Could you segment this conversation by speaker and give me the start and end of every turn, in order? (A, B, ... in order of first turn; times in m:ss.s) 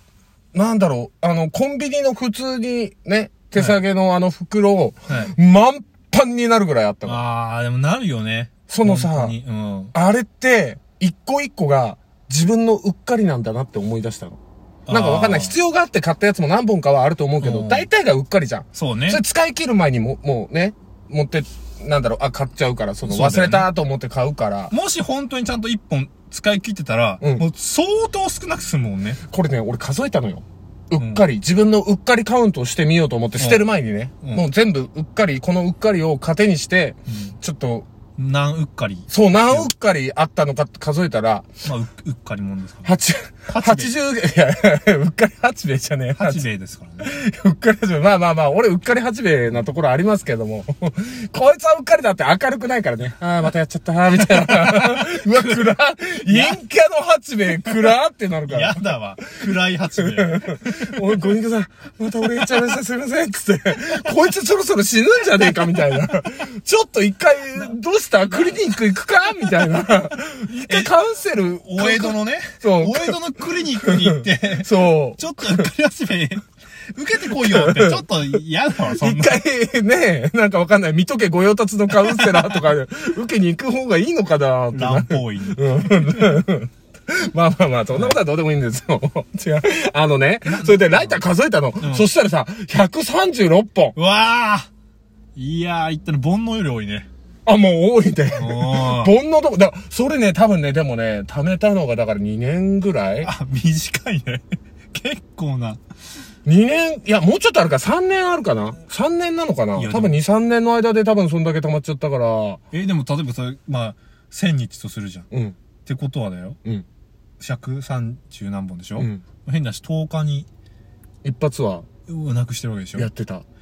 0:00.5-0:07.2 A
0:05.1-0:05.3 B
0:07.0-0:09.9 B
0:08.7-0:09.4 A
0:09.9-0:24.7 A
0:14.9-0:15.6 B
0:17.4-0:17.9 B
0:18.7-0:19.2 B
0:23.0-0:23.7 B
0:24.7-0:29.2 B
0:29.3-0:37.9 A
0:31.0-0:31.2 B
0:33.4-0:33.7 B
0:37.1-0:37.4 B
0:38.2-0:39.7 B
0:39.1-0:41.5 A
0:41.6-0:42.9 B
0:42.8-0:46.4 A
0:43.5-0:43.9 B
0:46.2-0:47.1 B
0:47.0-0:59.4 A
0:54.2-0:55.6 B
0:56.3-0:56.6 B
0:58.5-1:01.1 B
1:00.1-1:15.6 A
1:10.6-1:10.9 B
1:11.6-1:19.4 B
1:17.4-1:18.0 A
1:18.9-1:34.0 A
1:24.7-1:26.4 B
1:27.9-1:28.2 B
1:30.4-1:31.2 B
1:31.8-1:32.1 B
1:34.0-1:34.7 B
1:35.4-1:37.1 B
1:37.5-1:43.3 A
1:38.4-1:39.1 B
1:43.2-1:44.4 B
1:44.9-1:45.8 B
1:46.5-1:52.6 A
1:49.8-1:50.2 B
1:52.7-1:55.3 B
1:55.3-1:55.6 A
1:55.9-1:56.6 B
1:57.4-2:00.5 B
1:59.0-1:59.2 A
2:01.2-2:01.9 A
2:02.1-2:03.1 B
2:03.0-2:03.4 A